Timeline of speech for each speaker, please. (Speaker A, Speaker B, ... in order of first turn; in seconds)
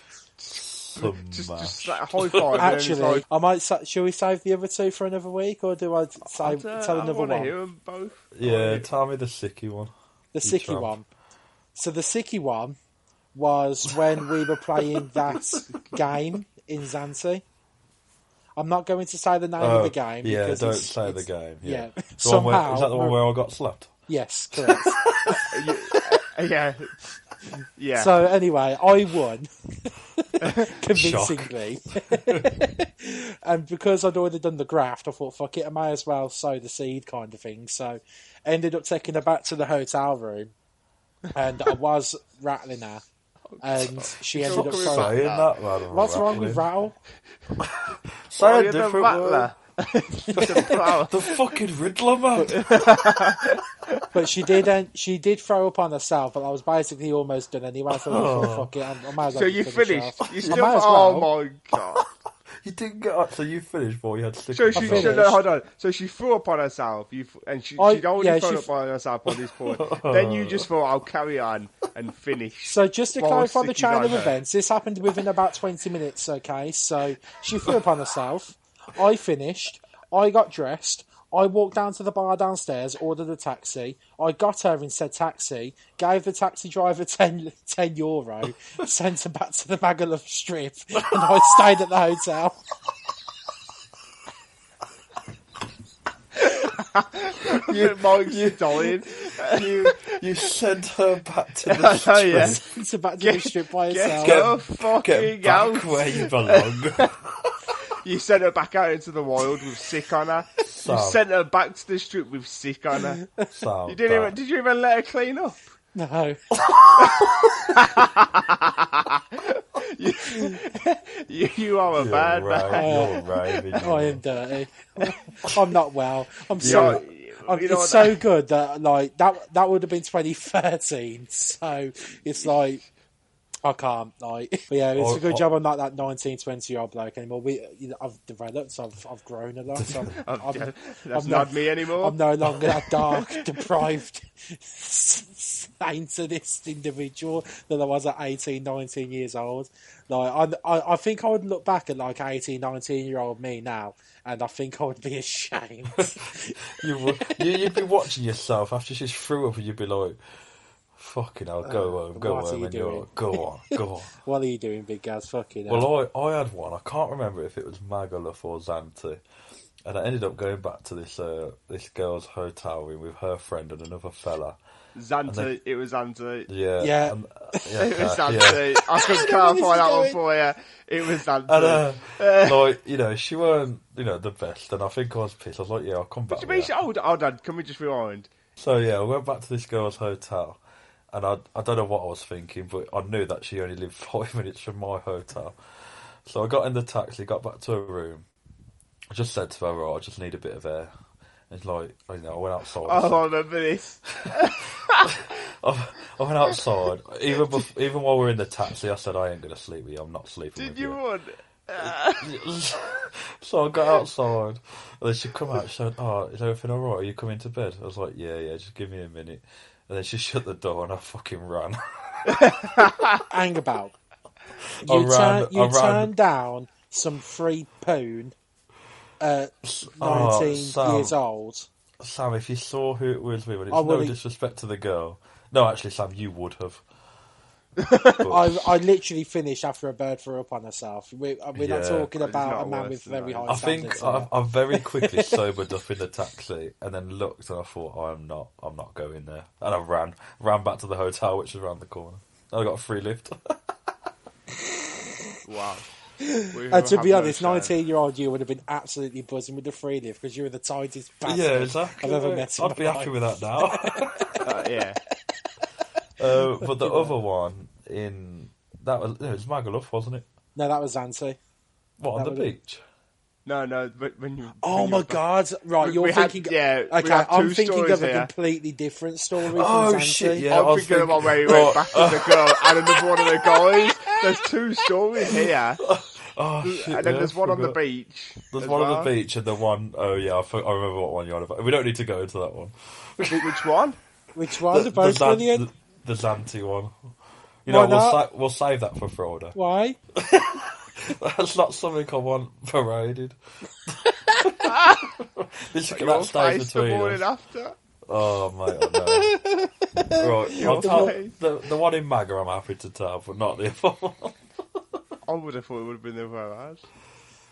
Speaker A: 0.4-3.2, 6.2-8.9, 15.5-16.0, 25.5-26.9, 27.8-28.3, 43.7-45.5, 48.4-51.6, 52.4-54.6, 59.2-62.1, 64.5-74.4, 96.4-100.2, 101.7-102.6, 103.2-107.1, 107.9-113.2, 113.9-115.7, 117.0-123.3, 126.6-128.2, 140.2-142.2, 142.8-143.7, 174.9-176.5, 177.8-182.7, 186.3-188.3, 202.8-205.1, 210.6-212.3, 222.3-223.2, 237.8-238.2, 242.2-243.9, 255.4-255.9, 256.4-257.7, 264.4-265.0, 273.4-275.2, 275.8-278.3, 280.5-285.8, 286.6-289.1, 293.3-294.0, 304.7-305.0, 305.9-307.8, 310.5-311.3, 315.2-316.9
Speaker B: 0.5-2.6, 8.3-9.9, 10.4-10.9, 15.0-15.6, 19.6-23.9, 24.6-25.7, 30.9-32.6, 44.4-46.6, 47.6-49.5, 50.4-53.0, 57.9-58.7, 60.2-60.7, 61.7-62.1, 62.6-65.3, 69.7-70.7, 91.1-91.7, 97.4-102.6, 104.1-107.7, 110.7-111.2, 113.5-114.3, 116.5-117.7, 121.9-124.2, 126.6-127.0, 134.9-135.4, 139.7-140.2, 156.0-160.2, 160.9-164.1, 165.7-169.2, 169.8-174.6, 175.2-175.5, 176.5-178.7, 181.5-186.7, 188.6-190.6, 191.1-198.2, 199.1-200.9, 201.5-203.3, 204.2-211.0, 211.8-222.7, 224.8-226.1, 229.6-231.1, 232.0-236.8, 238.2-238.7, 241.6-242.1, 243.5-253.7, 261.2-264.5, 266.2-270.2, 272.0-272.8, 279.4-284.5, 285.2-287.8, 288.5-293.7, 294.5-297.1, 297.6-299.6, 300.1-307.3, 308.1-309.4, 310.1-315.0
Speaker C: 2.5-7.5, 10.3-11.1, 11.8-12.8, 13.3-17.4, 18.6-23.2, 24.1-25.6, 27.9-40.5, 41.3-43.0, 43.6-45.2, 45.9-47.0, 50.4-50.8, 54.1-61.3, 64.7-65.4, 67.8-68.7, 72.6-92.6, 102.3-104.4, 113.1-113.5, 115.9-116.4, 122.7-123.2, 123.8-132.8, 133.6-157.8, 161.6-165.9, 176.8-177.8, 178.9-180.2, 223.3-223.9, 224.8-228.3, 229.2-231.7, 233.7-234.2, 238.2-245.4, 256.2-264.6, 266.4-267.1, 270.6-271.4, 272.1-272.5, 274.6-280.5, 294.3-295.7, 297.6-298.2, 299.5-300.0, 310.0-311.1